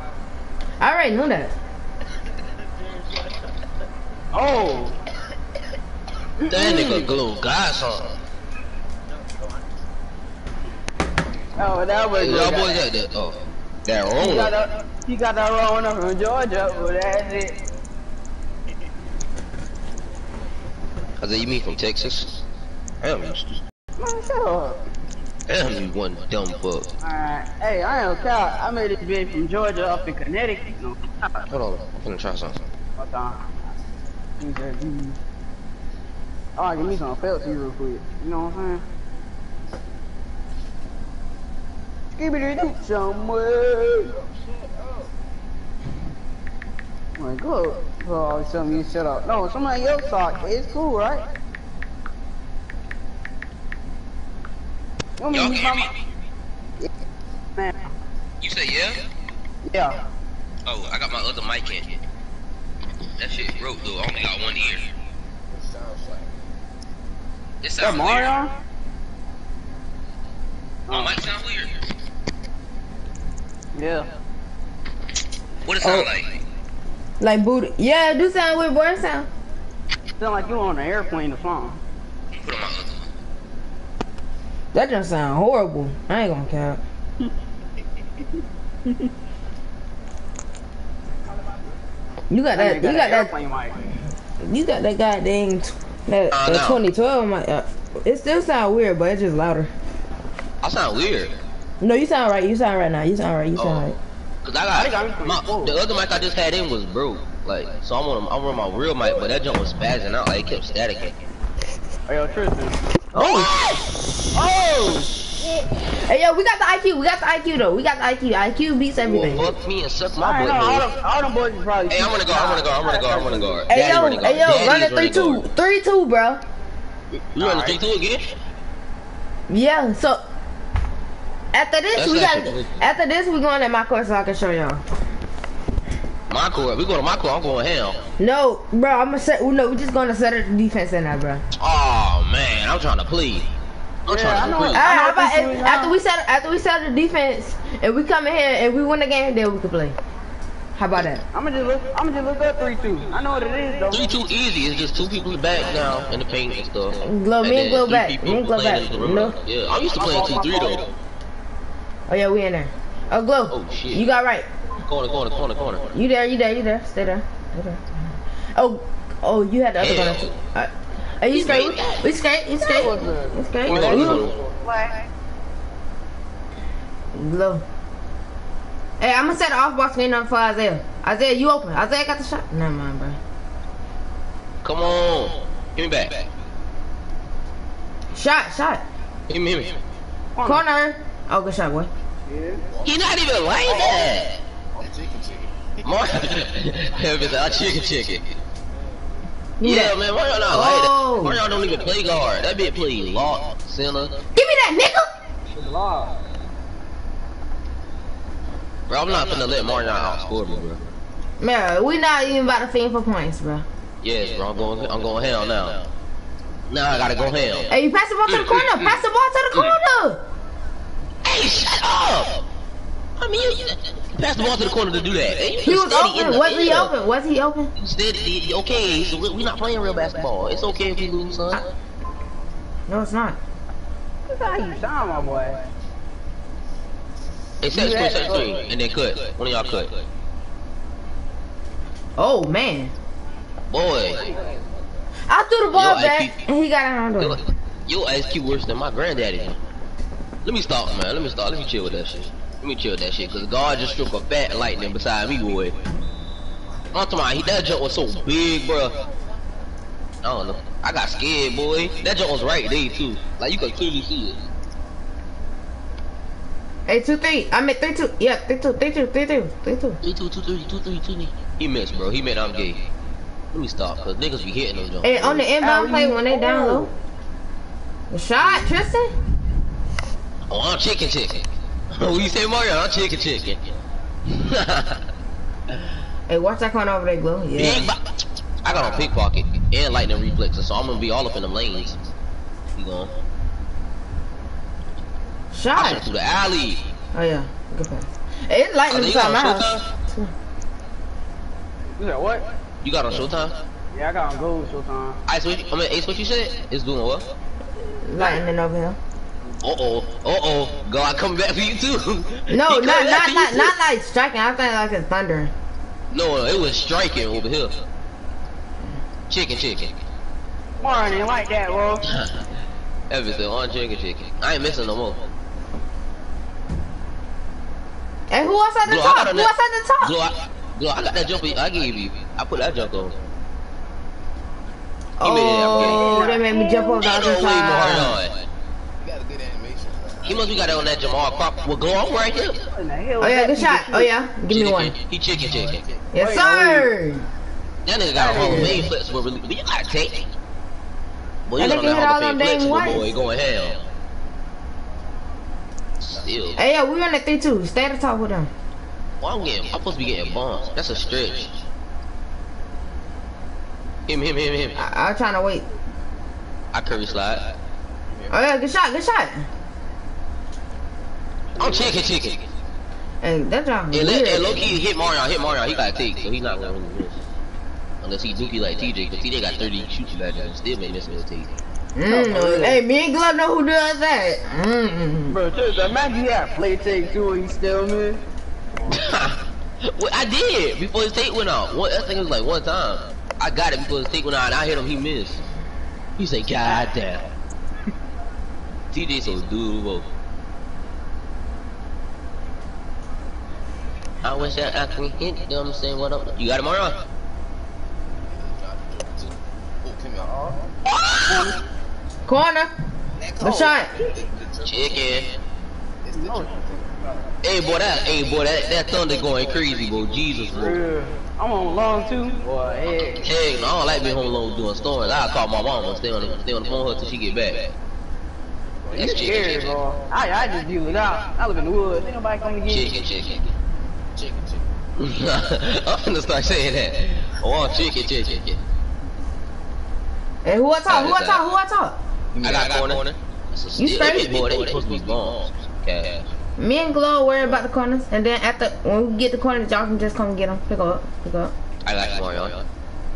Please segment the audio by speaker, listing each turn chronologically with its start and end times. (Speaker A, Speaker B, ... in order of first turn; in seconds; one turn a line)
Speaker A: 0.8-1.5
Speaker B: 4.3-5.0
Speaker B: 6.4-7.1
Speaker C: 6.5-8.2
Speaker D: 6.9-8.2
Speaker D: 9.2-9.6
Speaker B: 11.6-12.9
Speaker C: 12.1-14.6
Speaker D: 12.3-12.7
Speaker B: 14.2-17.6
Speaker C: 21.2-22.4
Speaker C: 23.0-23.6
Speaker B: 24.0-24.9
Speaker C: 25.5-26.9
Speaker B: 27.0-31.5
Speaker C: 31.5-32.6
Speaker B: 33.0-33.6
Speaker B: 34.4-35.2
Speaker B: 36.6-38.8
Speaker B: 42.2-44.1
Speaker D: 44.1-45.1
Speaker B: 47.2-51.2
Speaker D: 50.8-51.4
Speaker B: 55.2-55.9
Speaker C: 55.3-56.0
Speaker B: 57.6-57.9
Speaker C: 58.4-59.1
Speaker B: 59.7-60.0
Speaker C: 60.7-62.0
Speaker C: 63.2-64.9
Speaker D: 65.5-66.5
Speaker C: 67.6-68.3
Speaker B: 67.8-68.5
Speaker B: 70.9-71.2
Speaker C: 70.9-71.8
Speaker B: 73.8-74.1
Speaker C: 75.6-76.4
Speaker A: 75.8-76.1
Speaker A: 77.2-79.3
Speaker B: 80.2-81.8
Speaker C: 82.4-83.0
Speaker A: 84.7-86.8
Speaker A: 92.3-93.3
Speaker B: 92.5-93.8
Speaker A: 94.4-99.7
Speaker C: 96.3-96.8
Speaker C: 100.6-101.4
Speaker A: 101.8-104.0
Speaker C: 103.5-111.2
Speaker B: 104.7-105.8
Speaker D: 109.2-110.8
Speaker B: 112.1-112.8
Speaker A: 113.1-113.5
Speaker C: 113.2-113.9
Speaker B: 114.3-115.2
Speaker A: 115.9-119.5
Speaker C: 119.0-120.9
Speaker B: 120.2-123.7
Speaker C: 121.9-125.5
Speaker A: 123.7-126.4
Speaker C: 127.1-128.4
Speaker B: 127.4-127.8
Speaker A: 129.5-130.2
Speaker A: 131.5-134.8
Speaker C: 131.9-132.8
Speaker C: 136.3-138.1
Speaker A: 138.2-141.4
Speaker C: 141.6-143.5
Speaker C: 144.1-144.9
Speaker B: 144.1-145.9
Speaker A: 144.7-150.0
Speaker A: 150.8-151.2
Speaker B: 151.3-154.1
Speaker C: 153.9-160.9
Speaker A: 157.0-159.4
Speaker B: 159.8-160.8
Speaker A: 162.1-164.5
Speaker C: 163.5-164.1
Speaker C: 164.8-165.9
Speaker A: 165.9-167.8
Speaker A: 168.6-174.3
Speaker C: 169.8-170.3
Speaker C: 171.3-172.0
Speaker B: 172.6-174.9
Speaker C: 173.7-174.4
Speaker A: 177.1-177.7
Speaker A: 179.0-183.2
Speaker C: 184.6-186.1
Speaker A: 188.1-188.8
Speaker C: 189.3-189.8
Speaker B: 190.4-190.6
Speaker A: 190.4-191.9
Speaker B: 192.3-192.6
Speaker D: 192.7-193.0
Speaker C: 192.8-194.4
Speaker D: 193.7-194.2
Speaker D: 194.8-196.3
Speaker C: 195.8-198.2
Speaker D: 197.0-198.4
Speaker A: 199.6-200.0
Speaker C: 199.6-204.2
Speaker A: 200.5-201.5
Speaker D: 201.5-203.6
Speaker A: 204.4-205.1
Speaker B: 205.5-206.2
Speaker C: 208.9-210.8
Speaker D: 209.2-210.4
Speaker A: 211.4-213.7
Speaker C: 214.0-215.9
Speaker C: 216.7-217.7
Speaker A: 217.7-220.2
Speaker C: 218.3-219.8
Speaker C: 221.2-222.4
Speaker C: 223.2-226.9
Speaker A: 225.6-227.7
Speaker C: 227.8-231.7
Speaker D: 230.3-230.8
Speaker A: 232.9-233.4
Speaker B: 234.3-235.6
Speaker D: 235.2-235.6
Speaker C: 237.6-240.0
Speaker B: 237.7-238.7
Speaker D: 238.0-238.8
Speaker A: 242.2-242.9
Speaker C: 243.7-244.3
Speaker D: 244.0-244.8
Speaker A: 245.3-247.4
Speaker C: 245.7-246.4
Speaker C: 247.2-249.6
Speaker C: 250.4-255.8
Speaker C: 256.9-259.0
Speaker C: 260.2-264.4
Speaker A: 266.9-270.0
Speaker C: 270.0-272.8
Speaker C: 273.5-275.2
Speaker A: 275.0-276.9
Speaker B: 275.1-276.9
Speaker A: 278.1-279.1
Speaker C: 280.5-283.7
Speaker C: 284.3-285.1
Speaker A: 286.3-287.9
Speaker C: 287.6-288.0
Speaker C: 288.6-292.1
Speaker D: 288.6-289.1
Speaker C: 292.8-293.1
Speaker A: 295.5-296.1
Speaker C: 295.8-296.9
Speaker A: 297.1-300.3
Speaker C: 298.9-299.9
Speaker B: 302.0-302.4
Speaker C: 302.8-303.6
Speaker B: 303.9-305.2
Speaker C: 305.3-307.3
Speaker A: 308.0-309.0
Speaker B: 308.2-308.4
Speaker C: 309.6-313.8
Speaker A: 312.5-315.5
Speaker C: 316.1-317.8
Speaker C: 319.3-319.9
Speaker D: 320.8-321.4
Speaker B: 320.8-322.1
Speaker C: 322.0-322.4
Speaker C: 323.1-325.2
Speaker A: 328.3-330.2
Speaker C: 328.8-333.1
Speaker D: 332.6-333.3
Speaker A: 335.2-338.2
Speaker C: 335.2-336.1
Speaker B: 335.6-337.1
Speaker C: 337.0-338.5
Speaker D: 339.0-342.6
Speaker C: 340.2-342.6
Speaker B: 342.7-344.1
Speaker A: 343.2-344.9
Speaker C: 344.5-345.8
Speaker D: 345.3-346.1
Speaker A: 346.1-347.3
Speaker B: 346.2-346.9
Speaker C: 347.9-350.3
Speaker B: 348.1-348.9
Speaker A: 348.5-348.8
Speaker C: 351.5-353.8
Speaker A: 351.6-353.1
Speaker D: 353.2-353.8
Speaker C: 356.0-356.6
Speaker D: 356.1-356.6
Speaker A: 356.6-358.5
Speaker C: 359.2-361.6
Speaker D: 359.6-361.1
Speaker C: 364.1-364.8
Speaker A: 364.8-365.7
Speaker C: 366.7-367.4
Speaker D: 368.1-368.4
Speaker A: 368.3-369.5
Speaker B: 371.6-371.9
Speaker C: 371.6-372.4
Speaker A: 373.2-374.8
Speaker C: 373.9-377.2
Speaker C: 378.0-381.6
Speaker A: 381.9-385.4
Speaker B: 382.1-382.8
Speaker B: 385.3-388.2
Speaker D: 385.6-388.3
Speaker C: 388.9-395.4
Speaker C: 396.2-397.3
Speaker C: 398.9-400.1
Speaker C: 404.2-407.0
Speaker D: 408.3-410.7
Speaker B: 410.2-410.6
Speaker C: 410.9-411.5
Speaker B: 411.3-411.7
Speaker A: 412.3-412.7
Speaker D: 413.1-415.3
Speaker A: 413.4-413.9
Speaker C: 414.6-415.4
Speaker D: 416.0-420.8
Speaker B: 416.1-417.1
Speaker C: 417.4-420.8
Speaker B: 420.5-423.3
Speaker D: 422.8-427.7
Speaker C: 423.2-427.7
Speaker D: 428.8-432.2
Speaker B: 428.9-432.9
Speaker C: 428.9-429.8
Speaker C: 432.7-433.5
Speaker D: 434.1-434.7
Speaker C: 435.0-438.6
Speaker D: 436.3-436.9
Speaker A: 440.4-442.0
Speaker C: 440.9-441.4
Speaker D: 442.3-443.0
Speaker C: 442.4-446.3
Speaker A: 443.8-444.4
Speaker D: 444.3-445.7
Speaker A: 446.6-451.5
Speaker C: 451.9-452.6
Speaker D: 452.1-452.6